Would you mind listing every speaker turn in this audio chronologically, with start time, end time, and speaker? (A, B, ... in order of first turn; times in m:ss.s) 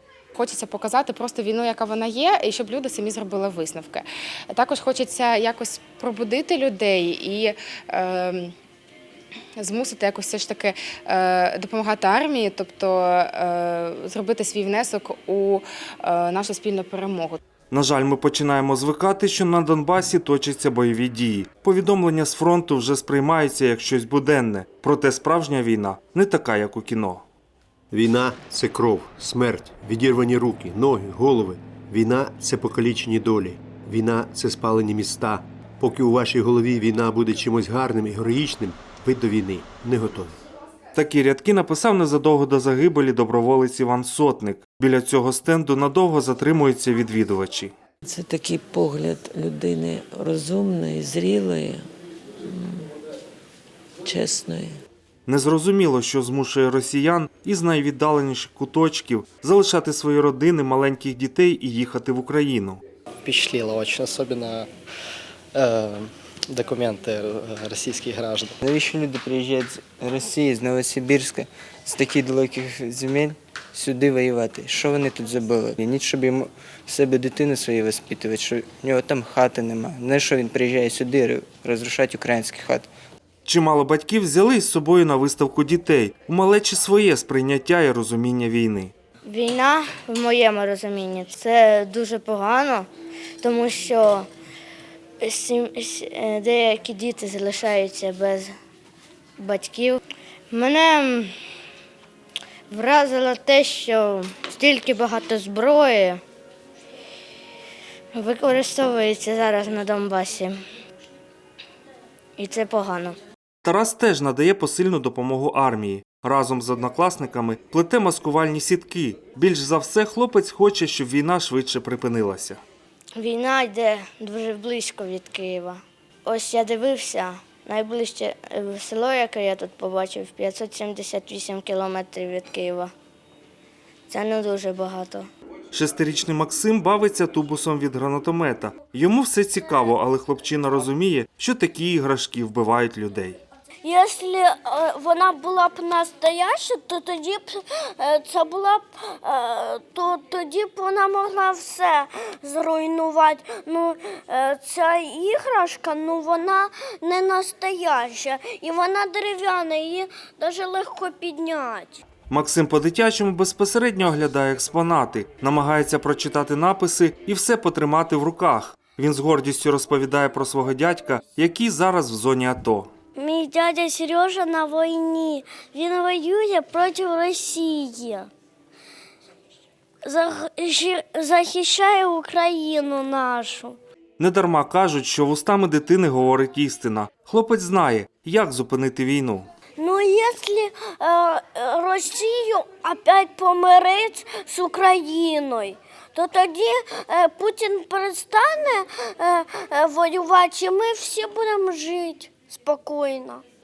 0:00.4-0:08.5 A
0:09.6-0:17.4 A
0:17.7-0:27.2 B
0:27.9-0:40.3 C
0:40.9-0:47.7 B
0:48.0-0:51.9 D
0:52.4-0:52.9 D
0:54.0-0:54.8 D
0:55.3-1:02.8 B
1:03.2-1:04.7 E
1:05.5-1:08.5 E
1:08.6-1:22.9 F
1:23.4-1:28.9 B
1:29.3-1:32.9 G
1:33.4-1:34.3 G
1:35.2-1:38.5 G
1:39.4-1:41.3 G
1:42.7-1:46.2 G
1:48.1-1:50.6 G
1:52.4-1:53.2 G
1:53.6-2:02.6 B
2:03.2-2:12.9 G
2:14.1-2:15.3 G
2:15.7-2:23.4 B
2:23.8-2:42.0 H
2:42.3-2:52.9 B
2:53.2-2:58.3 H
3:00.0-3:03.8 H
3:04.2-3:09.5 B
3:09.8-3:23.4 H